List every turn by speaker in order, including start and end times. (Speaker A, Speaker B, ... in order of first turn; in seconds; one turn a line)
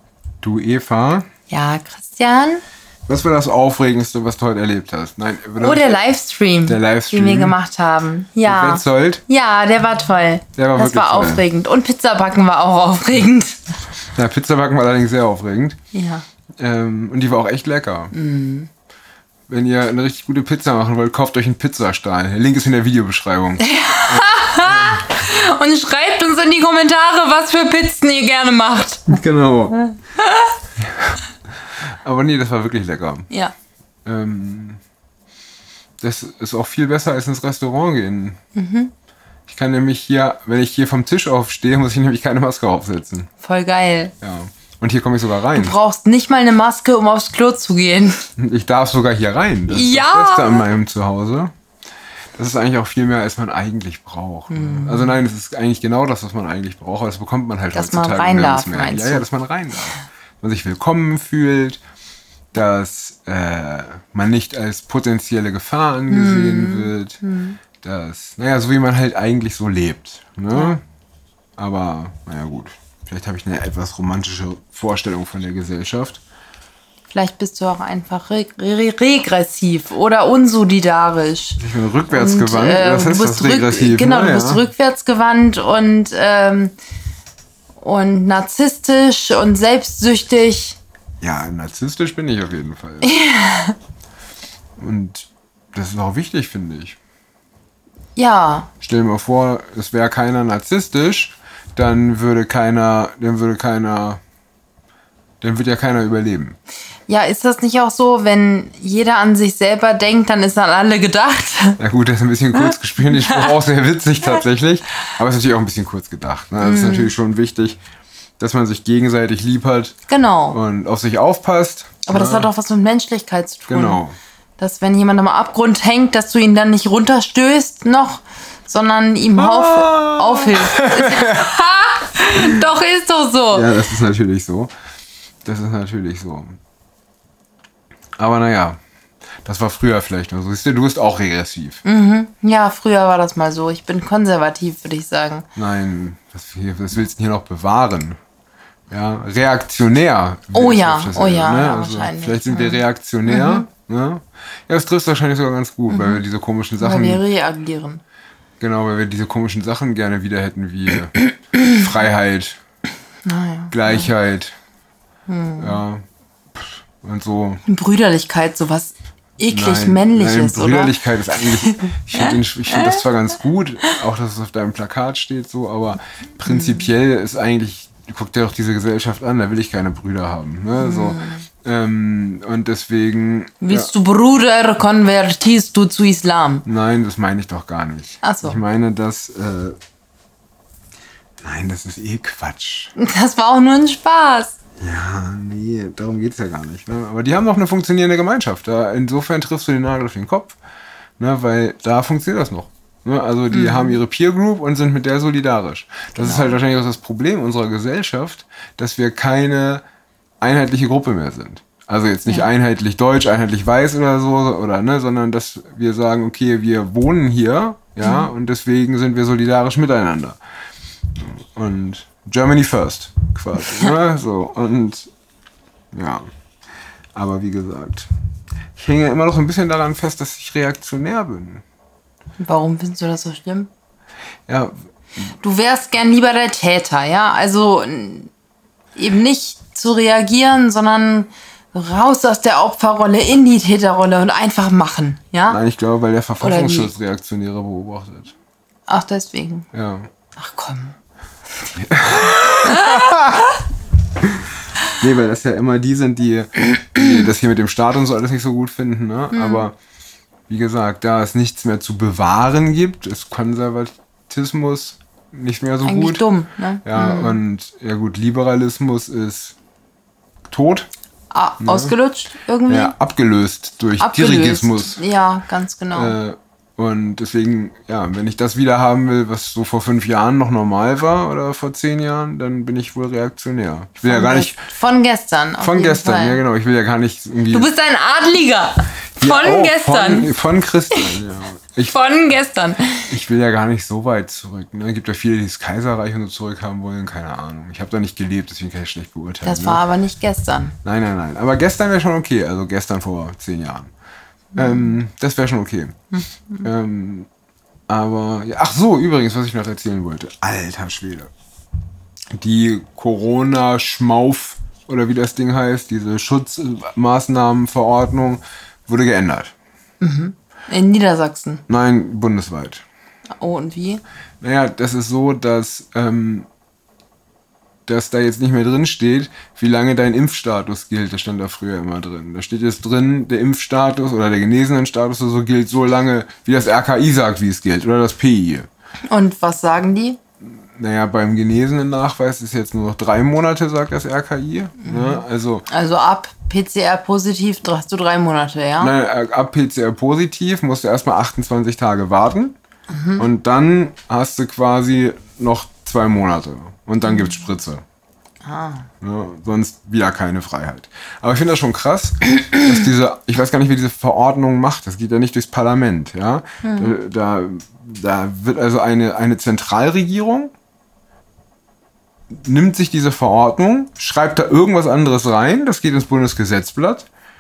Speaker A: 0.4-1.3
Speaker B: 1.5-2.6
Speaker A: 3.1-6.0
Speaker B: 5.6-13.6
Speaker A: 6.7-7.6
Speaker A: 8.4-9.2
Speaker A: 10.6-11.4
Speaker A: 14.2-15.8
Speaker B: 15.9-16.2
Speaker A: 16.6-18.1
Speaker B: 18.1-18.7
Speaker A: 19.5-25.1
Speaker B: 23.6-29.1
Speaker A: 29.1-29.9
Speaker B: 29.9-30.5
Speaker A: 32.0-33.3
Speaker A: 34.0-34.8
Speaker A: 36.0-38.4
Speaker B: 38.5-38.9
Speaker A: 39.5-43.3
Speaker B: 43.4-44.1
Speaker A: 44.2-45.8
Speaker B: 45.5-48.3
Speaker A: 48.4-51.5
Speaker B: 49.7-50.6
Speaker A: 52.4-61.8
Speaker B: 54.5-55.2
Speaker B: 57.7-59.3
Speaker A: 62.5-67.2
Speaker B: 66.1-67.6
Speaker A: 67.8-70.8
Speaker A: 71.6-76.2
Speaker B: 77.1-86.8
Speaker A: 81.6-84.6
Speaker B: 87.8-90.8
Speaker A: 91.2-93.2
Speaker B: 93.0-93.8
Speaker A: 94.8-97.0
Speaker B: 98.2-98.7
Speaker A: 98.8-104.2
Speaker A: 105.4-106.6
Speaker B: 107.1-111.8
Speaker A: 111.8-117.8
Speaker B: 113.1-113.5
Speaker B: 116.6-117.1
Speaker A: 118.4-120.0
Speaker B: 120.1-120.6
Speaker A: 120.5-122.5
Speaker B: 122.1-124.0
Speaker A: 123.7-124.2
Speaker B: 124.6-133.7
Speaker A: 129.4-131.4
Speaker A: 133.5-134.7
Speaker A: 135.4-136.5
Speaker A: 138.2-138.8
Speaker A: 139.4-141.8
Speaker B: 141.8-145.5
Speaker A: 145.6-148.2
Speaker A: 148.9-157.2
Speaker B: 150.5-153.7
Speaker B: 155.9-156.2
Speaker B: 156.8-158.0
Speaker A: 158.6-162.6
Speaker B: 163.2-164.1
Speaker A: 163.7-164.6
Speaker B: 165.3-165.8
Speaker A: 165.6-166.0
Speaker A: 166.6-167.6
Speaker B: 167.7-173.0
Speaker A: 169.5-183.9
Speaker B: 180.8-181.4
Speaker B: 183.6-186.7
Speaker A: 186.7-189.8
Speaker B: 188.2-188.6
Speaker A: 191.4-192.9
Speaker B: 193.0-194.6
Speaker A: 194.8-200.6
Speaker A: 201.2-209.8
Speaker B: 203.5-204.0
Speaker B: 206.2-206.6
Speaker A: 210.4-220.4
Speaker B: 218.0-218.3
Speaker A: 221.2-225.1
Speaker A: 225.9-226.2
Speaker A: 227.2-228.1
Speaker A: 228.8-231.6
Speaker B: 232.4-233.7
Speaker A: 234.5-234.7
Speaker B: 235.4-238.3
Speaker B: 239.0-245.6
Speaker A: 245.5-248.3
Speaker B: 246.4-246.9
Speaker B: 248.9-249.7
Speaker A: 249.7-250.1
Speaker B: 250.4-250.9
Speaker A: 251.8-253.5
Speaker B: 252.7-253.0
Speaker A: 254.9-259.8
Speaker B: 259.3-259.7
Speaker A: 260.5-266.2
Speaker B: 265.8-267.4
Speaker A: 266.9-269.6
Speaker A: 270.5-270.9
Speaker B: 271.3-272.9
Speaker A: 271.6-272.0
Speaker A: 272.7-275.0
Speaker B: 274.0-276.2
Speaker A: 275.9-284.7
Speaker B: 284.1-286.4
Speaker A: 285.6-287.7
Speaker B: 287.5-290.3
Speaker A: 289.2-292.0
Speaker B: 291.9-293.1
Speaker A: 293.1-299.8
Speaker B: 299.4-300.8
Speaker A: 300.8-303.9
Speaker A: 304.6-306.0
Speaker B: 304.6-305.0
Speaker B: 306.1-306.7
Speaker A: 306.6-307.3
Speaker A: 307.9-311.3
Speaker A: 312.3-319.5
Speaker B: 320.0-321.6
Speaker A: 321.7-322.8
Speaker B: 323.4-324.0
Speaker A: 324.4-326.5
Speaker A: 327.9-338.7
Speaker B: 339.1-340.2
Speaker A: 340.7-345.7
Speaker B: 344.8-348.9
Speaker A: 348.8-352.6
Speaker B: 352.9-353.3
Speaker A: 353.2-357.8
Speaker B: 357.1-357.4
Speaker B: 358.4-358.9
Speaker A: 359.0-370.5
Speaker B: 366.6-366.9
Speaker A: 372.3-377.1